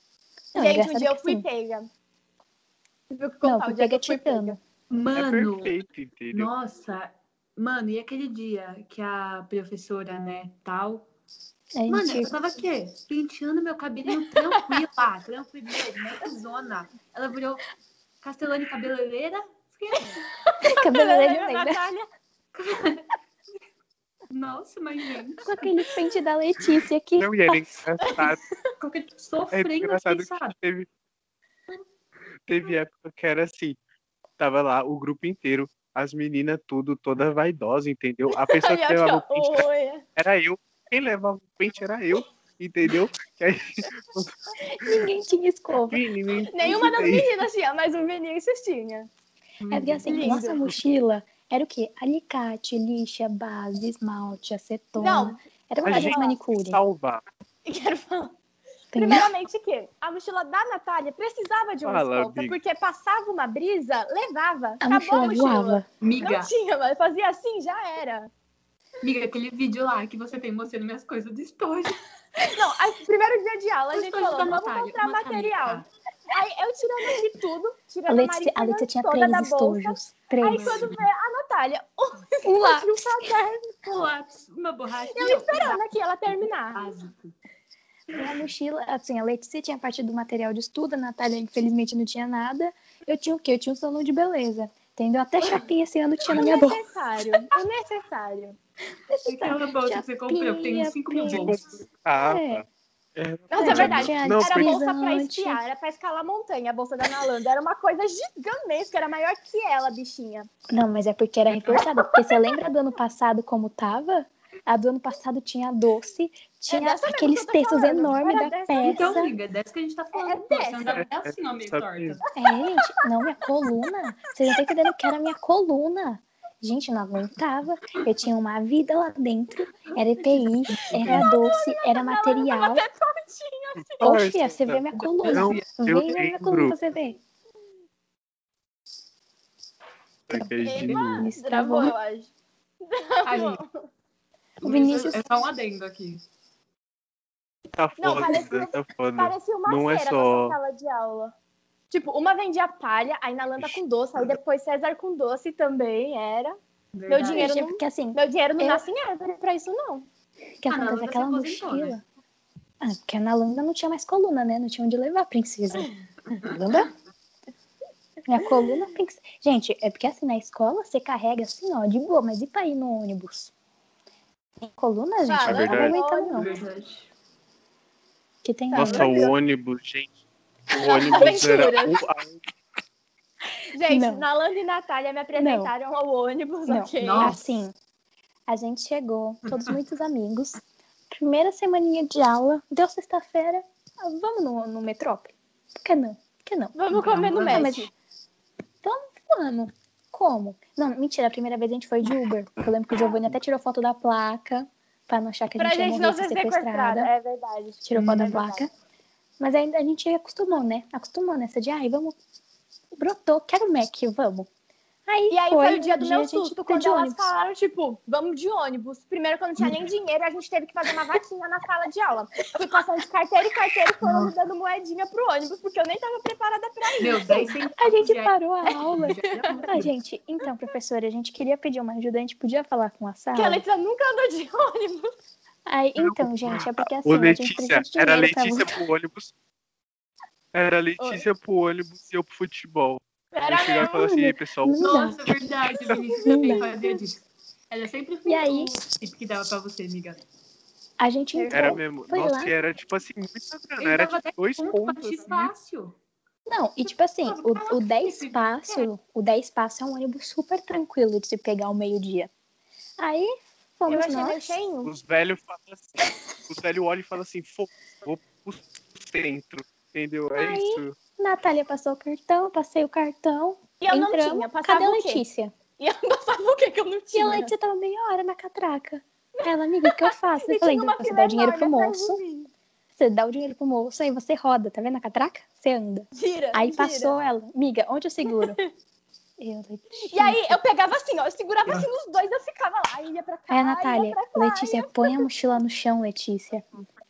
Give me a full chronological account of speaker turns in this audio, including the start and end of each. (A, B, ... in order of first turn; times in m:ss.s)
0:00.5-0:01.4 A
0:00.6-0:01.9 B
0:03.1-0:04.6 B
0:03.4-0:04.6 A
0:04.9-0:05.8 C
0:05.1-0:06.5 D
0:06.3-0:11.1 C
0:11.8-0:12.3 A
0:11.9-0:17.6 C
0:14.5-0:14.8 B
0:18.2-0:20.2 C
0:20.5-0:22.1 B
0:20.6-0:21.8 A
0:22.5-0:23.0 C
0:24.3-0:25.6 C
0:25.4-0:27.6 A
0:27.2-0:28.4 D
0:28.0-0:28.4 B
0:28.8-0:30.6 C
0:29.5-0:30.9 D
0:32.5-0:33.8 D
0:34.4-0:45.0 D
0:38.3-0:40.0 B
0:44.6-0:46.0 A
0:45.9-0:47.4 D
0:46.5-0:49.1 B
0:49.6-0:50.5 C
0:49.7-0:56.8 A
0:50.1-0:50.6 B
0:55.0-0:56.4 B
0:55.8-0:57.2 D
0:57.6-0:58.3 B
0:58.9-0:59.3 A
0:59.0-1:08.3 B
1:01.8-1:02.6 D
1:04.8-1:05.9 A
1:06.0-1:06.5 C
1:09.0-1:12.0 C
1:12.4-1:23.7 B
1:13.9-1:15.9 C
1:18.1-1:20.9 A
1:20.4-1:21.0 C
1:22.4-1:23.3 A
1:23.8-1:25.8 C
1:25.1-1:26.9 B
1:26.7-1:27.3 C
1:28.1-1:36.8 A
1:36.3-1:38.6 B
1:39.1-1:41.6 A
1:39.3-1:41.7 C
1:41.3-1:42.6 D
1:42.1-1:42.6 A
1:43.2-1:44.7 D
1:43.5-1:50.5 B
1:43.6-1:45.6 A
1:50.7-1:59.3 A
1:51.7-1:52.6 B
1:56.7-1:59.3 B
1:58.8-2:02.2 C
2:00.1-2:01.0 B
2:00.9-2:02.2 D
2:02.4-2:12.8 A
2:10.9-2:11.2 D
2:11.0-2:14.2 B
2:13.8-2:16.8 D
2:14.0-2:17.2 A
2:15.0-2:15.7 C
2:20.3-2:21.3 D
2:20.3-2:22.0 A
2:20.6-2:23.7 B
2:23.2-2:23.6 C
2:24.6-2:25.3 A
2:24.6-2:26.2 C
2:27.7-2:30.6 D
2:28.0-2:31.3 B
2:31.9-2:36.6 B
2:36.9-2:37.5 C
2:37.1-2:40.1 B
2:37.3-2:38.8 A
2:40.6-2:42.0 A
2:40.7-2:42.0 C
2:42.8-2:46.9 A
2:48.3-2:53.5 A
2:54.6-2:56.5 A
2:55.3-2:56.6 B
2:55.4-2:56.0 D
2:56.3-2:57.1 C
2:58.4-2:59.2 A
2:58.7-2:59.3 B
2:58.7-3:00.1 D
3:00.7-3:02.4 D
3:00.7-3:02.0 B
3:03.7-3:07.4 B
3:03.9-3:04.3 A
3:05.4-3:05.7 A
3:06.7-3:07.8 A
3:07.0-3:07.6 C
3:08.5-3:17.9 A
3:16.8-3:17.9 B
3:16.9-3:17.8 C
3:18.8-3:27.1 A
3:25.6-3:28.6 B
3:27.8-3:28.7 A
3:28.0-3:28.4 C
3:29.4-3:32.2 A
3:33.0-3:34.5 A
3:35.1-3:37.3 A
3:35.3-3:47.6 B
3:47.0-3:49.9 C
3:47.8-3:53.6 A
3:49.3-3:49.6 B
3:53.3-3:55.1 B
3:55.7-3:58.8 A
3:56.0-3:59.3 D
4:00.5-4:04.8 D
4:01.0-4:01.2 B
4:03.3-4:04.1 B
4:03.8-4:05.2 A
4:04.8-4:10.2 C
4:06.2-4:06.7 A
4:06.2-4:06.8 B
4:08.3-4:08.8 A
4:11.0-4:12.5 A
4:11.4-4:11.8 B
4:11.5-4:15.5 D
4:13.8-4:16.0 C
4:16.5-4:22.3 A
4:17.2-4:18.9 C
4:23.0-4:24.6 A
4:23.9-4:24.9 B
4:24.8-4:26.0 D
4:26.5-4:31.0 D
4:30.4-4:35.5 A
4:33.8-4:35.2 B
4:35.8-4:37.5 B
4:37.1-4:42.2 A
4:39.4-4:42.5 B
4:43.0-4:48.6 A
4:46.2-4:47.2 B
4:48.3-4:48.7 B
4:49.4-4:50.6 A
4:50.1-4:55.3 B
4:53.5-4:56.8 A